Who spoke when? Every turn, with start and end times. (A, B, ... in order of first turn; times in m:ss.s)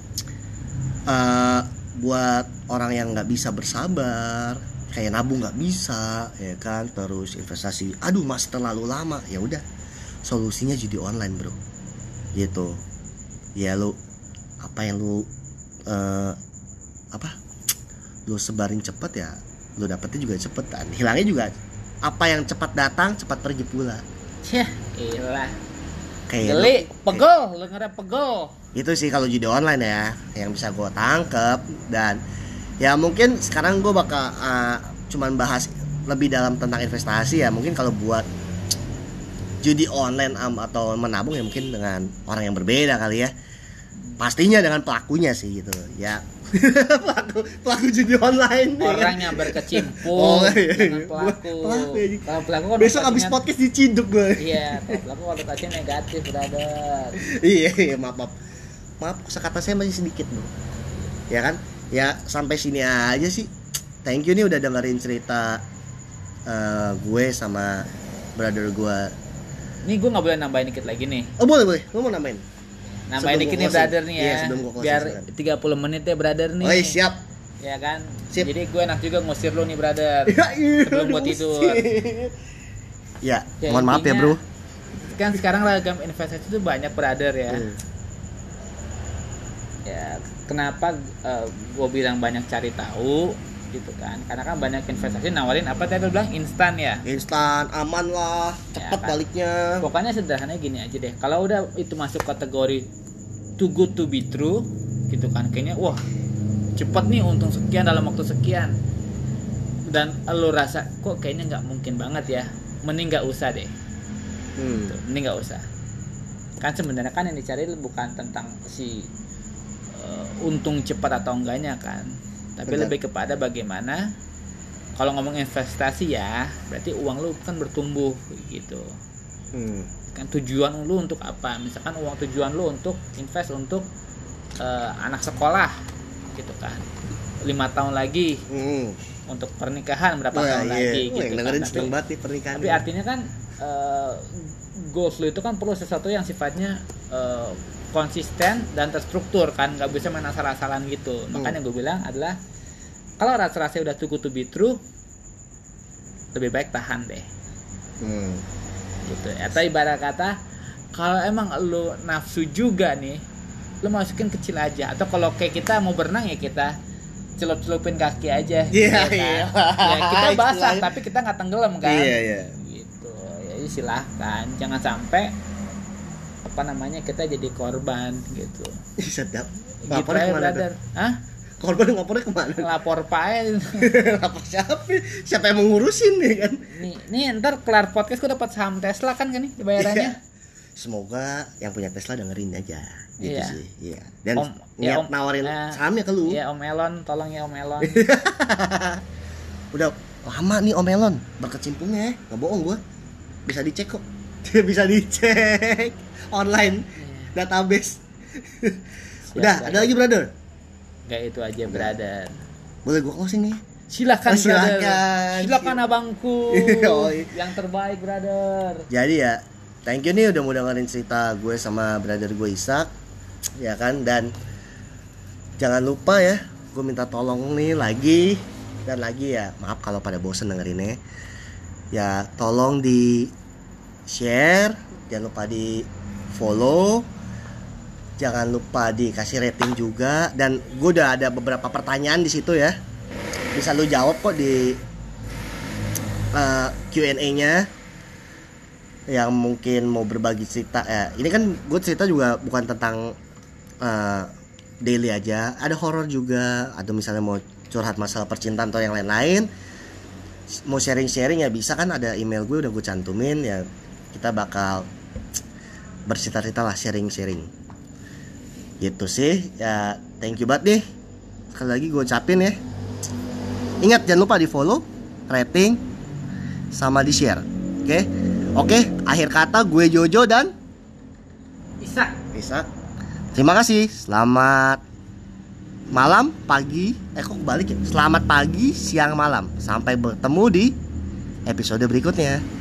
0:01.1-0:09.6 A
0:10.3-0:11.6 A
0:12.4-0:12.8 A
0:13.6-0:14.0 A
0:14.6-0:15.3 A
0:15.9-0:16.4 A
0:18.3-0:21.5 A
0:22.0-0:24.0 A
0:24.4-0:25.6 B
0:26.3-0:27.2 A
0:26.4-0:28.6 B
0:28.8-0:32.2 A
0:32.8-0:38.3 A
0:39.6-0:43.3 A
0:44.2-0:52.3 A
0:48.8-0:53.4 B
0:52.8-0:55.0 A
0:54.4-0:57.2 B
0:57.2-0:58.4 A
0:59.0-1:00.5 A
1:01.3-1:03.5 A
1:04.0-1:05.6 A
1:06.5-1:09.1 A
1:09.8-1:11.3 B
1:11.4-1:12.4 A
1:13.1-1:17.0 B
1:13.2-1:15.3 A
1:16.6-1:17.2 A
1:17.6-1:21.8 B
1:20.3-1:22.4 A
1:23.2-1:24.4 A
1:23.6-1:24.4 B
1:25.0-1:27.7 B
1:27.5-1:27.8 A
1:29.9-1:37.0 B
1:37.0-1:39.8 A
1:38.8-1:39.2 B
1:39.8-1:42.9 B
1:43.6-1:46.0 B
1:46.8-1:48.8 B
1:49.9-1:53.7 B
1:54.6-1:55.0 A
1:54.8-1:55.6 B
1:56.6-1:59.1 B
1:59.9-2:04.0 B
2:02.7-2:02.9 A
2:05.0-2:08.9 B
2:09.5-2:09.9 A
2:10.1-2:13.8 B
2:14.6-2:15.8 B
2:16.4-2:16.9 B
2:17.5-2:18.4 B
2:18.5-2:19.0 A
2:19.3-2:21.9 B
2:20.3-2:22.8 A
2:22.6-2:32.4 B
2:31.3-2:31.6 A
2:33.2-2:34.8 B
2:36.4-2:37.3 B
2:38.0-2:38.4 A
2:39.1-2:40.4 B
2:41.0-2:43.2 B
2:43.8-2:46.7 B
2:47.4-2:55.3 B
2:48.7-2:50.9 A
2:51.8-2:52.6 A
2:56.4-2:58.7 B
2:59.0-3:00.6 A
2:59.9-3:01.2 B
3:01.6-3:02.7 A
3:02.6-3:03.9 B
3:03.8-3:06.7 A
3:06.7-3:10.2 B
3:09.8-3:10.2 A
3:10.8-3:16.4 A
3:13.2-3:13.6 B
3:14.4-3:17.9 B
3:17.8-3:19.0 A
3:19.7-3:22.8 A
3:23.5-3:28.8 A
3:27.0-3:27.4 B
3:29.3-3:29.9 B
3:29.4-3:30.3 A
3:31.1-3:32.4 B
3:31.7-3:31.9 A
3:32.8-3:33.6 A
3:33.9-3:38.9 B
3:34.3-3:35.8 A
3:36.5-3:37.3 A
3:38.9-3:42.9 A
3:43.6-3:44.3 A
3:45.6-3:51.0 A
3:51.9-3:53.3 A
3:54.1-3:57.1 A
3:58.2-4:02.8 A
4:03.6-4:04.8 A
4:06.4-4:07.7 A
4:09.1-4:13.2 A
4:13.8-4:14.3 A
4:14.8-4:19.5 A
4:20.7-4:24.9 A
4:26.1-4:27.5 A
4:28.8-4:30.8 A
4:31.5-4:32.6 A
4:33.8-4:35.8 A
4:36.7-4:40.5 A
4:41.8-4:42.2 B
4:42.3-4:42.7 A
4:43.4-4:44.8 A
4:45.9-4:50.8 A
4:51.5-4:52.4 A